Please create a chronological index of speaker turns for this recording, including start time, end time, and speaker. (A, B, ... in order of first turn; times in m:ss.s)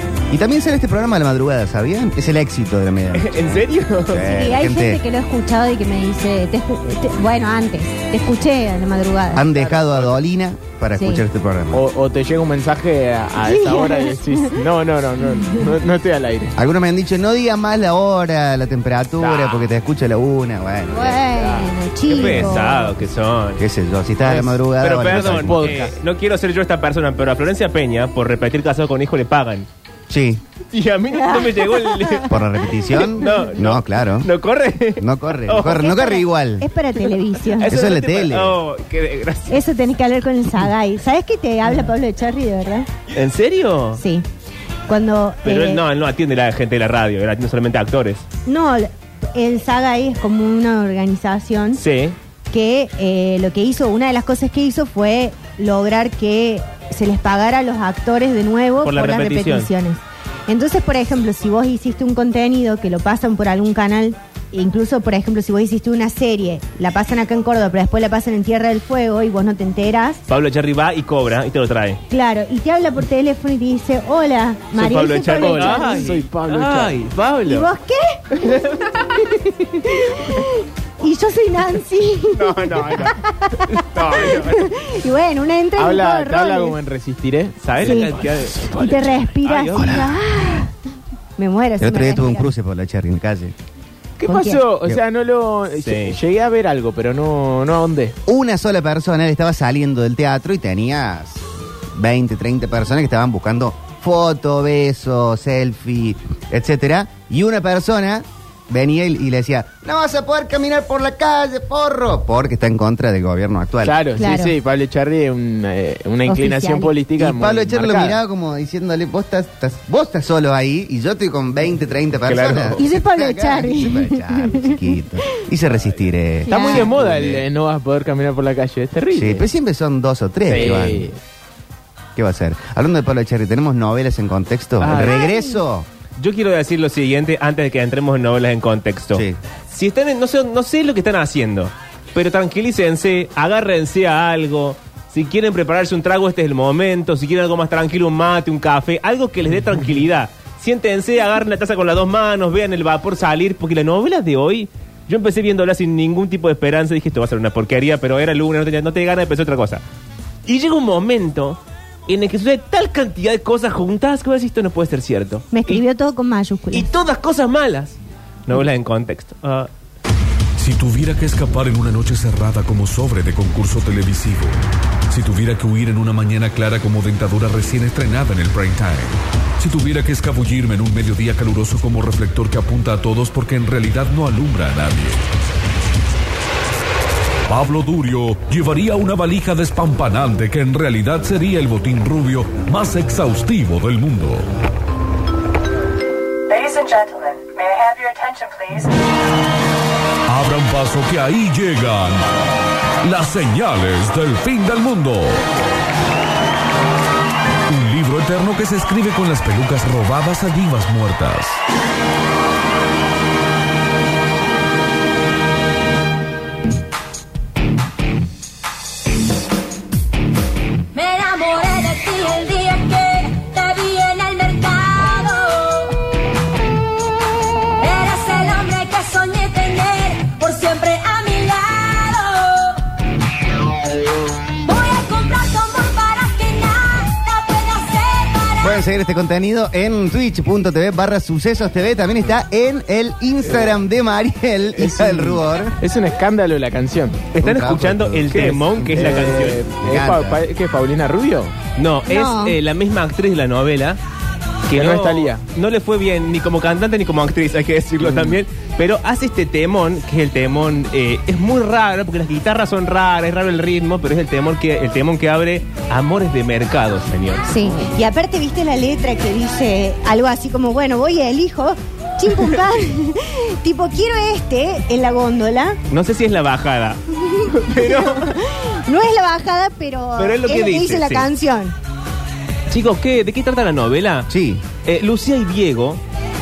0:00.3-0:05.0 A
0:03.2-0:04.2 B
0:04.2-0:09.5 C
0:09.3-0:11.8 A
0:09.5-0:10.2 D
0:11.0-0:11.2 C
0:11.7-0:16.5 D
0:13.4-0:14.6 C
0:15.3-0:15.7 C
0:16.6-0:21.4 A
0:19.2-0:19.7 B
0:20.9-0:23.0 C
0:22.1-0:23.6 B
0:23.6-0:25.8 A
0:24.2-0:26.0 D
0:24.3-0:29.7 B
0:30.1-0:30.4 A
0:30.7-0:32.3 B
0:31.2-0:32.3 C
0:32.3-0:34.3 A
0:33.2-0:36.0 B
0:35.0-0:36.7 A
0:35.7-0:37.7 C
0:37.5-0:39.6 B
0:37.7-0:38.6 A
0:39.5-0:42.9 C
0:43.1-0:44.0 B
0:44.0-0:44.3 C
0:44.9-0:45.8 C
0:45.4-0:48.2 B
0:48.5-0:51.8 C
0:51.8-0:52.2 B
0:52.5-1:10.2 C
0:58.8-0:59.7 B
1:10.3-1:12.0 B
1:12.1-1:16.1 C
1:14.8-1:17.7 B
1:15.0-1:17.0 D
1:17.4-1:18.4 C
1:18.4-1:19.0 B
1:19.2-1:26.8 C
1:22.3-1:24.7 B
1:25.8-1:28.0 D
1:27.6-1:30.0 B
1:27.8-1:30.7 C
1:29.8-1:30.1 A
1:31.4-1:32.5 C
1:31.8-1:33.5 A
1:34.2-1:38.2 D
1:34.3-1:34.7 C
1:35.8-1:36.2 B
1:38.3-1:41.4 A
1:41.9-1:54.0 A
1:53.8-1:58.2 D
1:54.2-1:54.6 C
1:56.3-1:56.9 C
1:57.2-2:06.5 A
2:02.3-2:02.8 B
2:02.8-2:04.9 C
2:06.5-2:09.4 D
2:06.5-2:06.9 C
2:06.5-2:07.4 B
2:09.1-2:11.1 A
2:10.5-2:11.2 D
2:12.2-2:15.9 A
2:14.8-2:15.2 B
2:14.9-2:15.6 C
2:16.2-2:39.8 B
2:40.5-2:45.8 B
2:45.5-2:46.9 C
2:46.7-2:49.7 B
2:50.6-3:05.2 E
3:07.5-3:14.5 E
3:16.5-3:18.7 F
3:20.3-3:22.3 E
3:23.0-3:25.5 E
3:27.7-3:31.6 E
3:40.9-3:46.0 G
3:47.8-3:52.8 G
3:54.7-3:58.7 G
3:58.6-4:05.8 A
4:04.8-4:07.3 D
4:07.3-4:09.6 B
4:07.4-4:10.4 A
4:08.3-4:11.6 D
4:11.8-4:14.0 B
4:12.1-4:12.6 C
4:14.7-4:27.4 B
4:14.7-4:15.4 D
4:18.1-4:18.4 D
4:27.5-4:35.8 C
4:35.9-4:38.3 B
4:37.2-4:41.8 C
4:40.2-4:41.3 B
4:42.7-4:44.3 B
4:44.3-4:44.6 A
4:44.8-4:46.0 B